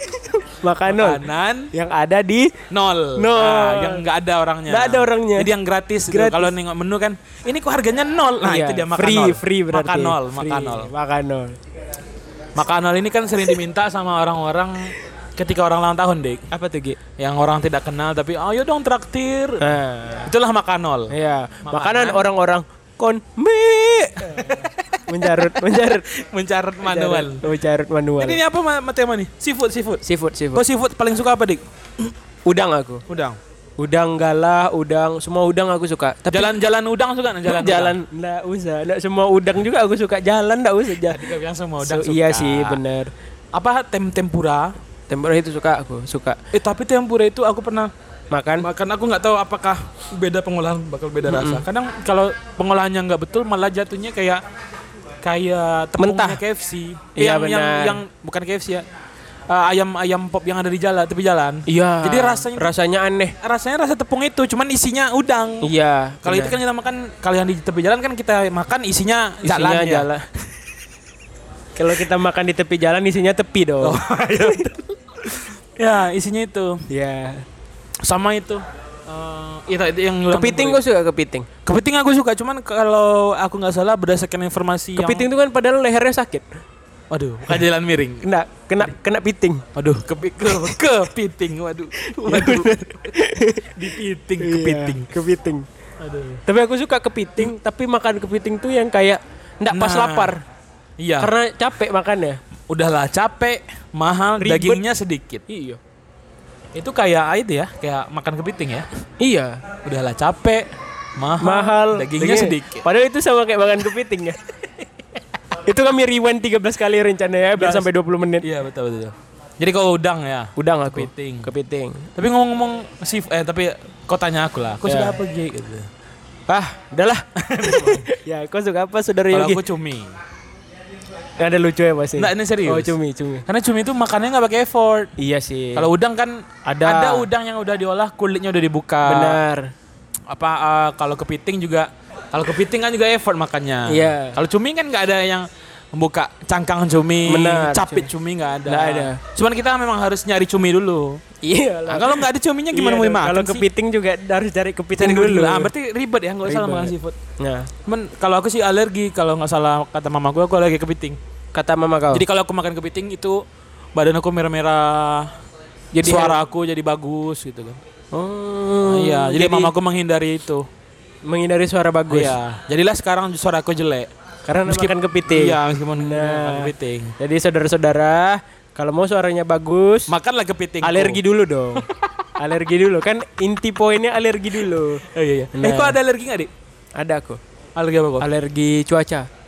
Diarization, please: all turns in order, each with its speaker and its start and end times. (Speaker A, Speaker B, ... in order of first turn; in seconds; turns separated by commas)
Speaker A: 0.1-2.6, Speaker B: 0.8-1.7, Speaker B: 2.7-10.9, Speaker A: 3.1-4.0, Speaker A: 4.7-5.5, Speaker A: 6.1-6.5, Speaker A: 8.4-11.6, Speaker B: 12.5-16.4, Speaker A: 16.5-17.0, Speaker B: 17.2-19.6, Speaker A: 19.6-20.3, Speaker B: 20.2-21.1, Speaker A: 21.1-26.1, Speaker B: 21.6-22.2, Speaker B: 24.2-27.4, Speaker A: 26.8-28.4, Speaker B: 28.2-30.0, Speaker A: 30.0-30.6, Speaker B: 30.5-31.6, Speaker A: 32.5-33.0, Speaker B: 33.1-33.4, Speaker A: 33.8-36.5, Speaker B: 36.2-38.0, Speaker A: 37.4-43.1, Speaker B: 41.0-42.8, Speaker B: 43.5-44.8, Speaker A: 45.1-46.4, Speaker B: 46.5-47.9, Speaker A: 48.3-48.7, Speaker B: 48.6-54.4, Speaker A: 51.2-51.6, Speaker B: 55.2-58.9, Speaker A: 56.0-56.4, Speaker A: 57.1-58.0, Speaker B: 59.5-62.7, Speaker A: 61.7-63.4, Speaker B: 63.4-65.7, Speaker A: 65.6-66.6, Speaker B: 66.2-70.1, Speaker A: 69.4-70.2, Speaker A: 71.8-74.0, Speaker B: 73.8-76.8, Speaker A: 76.9-77.4, Speaker B: 78.0-80.8, Speaker A: 80.3-81.5, Speaker B: 81.6-85.3, Speaker A: 85.0-86.5, Speaker B: 87.1-88.3, Speaker A: 88.2-89.6, Speaker B: 89.8-93.2, Speaker A: 92.0-93.8, Speaker B: 93.7-95.1, Speaker A: 94.4-95.7, Speaker B: 96.0-96.4, Speaker A: 96.5-100.4, Speaker B: 99.7-100.4, Speaker B: 101.0-101.3, Speaker A: 101.2-102.4, Speaker B: 102.7-105.4, Speaker A: 104.4-104.8, Speaker A: 105.5-105.8, Speaker B: 106.8-108.9, Speaker A: 109.2-109.6, Speaker B: 109.8-112.9, Speaker A: 111.4-114.4, Speaker A: 115.6-118.5, Speaker B: 117.6-117.9, Speaker B: 118.4-121.5, Speaker A: 120.6-122.1, Speaker B: 122.2-125.9, Speaker A: 124.8-125.2, Speaker A: 126.5-129.6, Speaker B: 127.4-128.1, Speaker B: 129.3-130.1, Speaker A: 131.4-133.4, Speaker B: 132.2-132.9, Speaker B: 133.5-135.1, Speaker A: 135.2-135.9, Speaker B: 135.8-139.4, Speaker A: 136.6-137.3, Speaker A: 139.0-139.7, Speaker B: 140.3-151.2, Speaker A: 143.9-144.4, Speaker A: 147.3-148.1, Speaker A: 148.7-149.2, Speaker A: 151.4-155.7, Speaker B: 151.9-153.7, Speaker B: 155.0-157.2, Speaker A: 156.4-157.7, Speaker B: 157.9-161.2, Speaker A: 161.5-162.2, Speaker B: 162.1-163.4, Speaker B: 163.9-165.3, Speaker A: 165.9-166.4, Speaker B: 166.0-167.8, Speaker A: 168.1-169.7, Speaker B: 168.8-170.7, Speaker A: 171.2-172.4, Speaker B: 172.1-174.1, Speaker A: 174.4-180.1, Speaker B: 174.6-177.1, Speaker B: 180.1-181.2, Speaker A: 180.8-186.0, Speaker B: 185.0-186.5, Speaker A: 187.0-187.4, Speaker B: 187.8-188.3, Speaker A: 188.2-189.2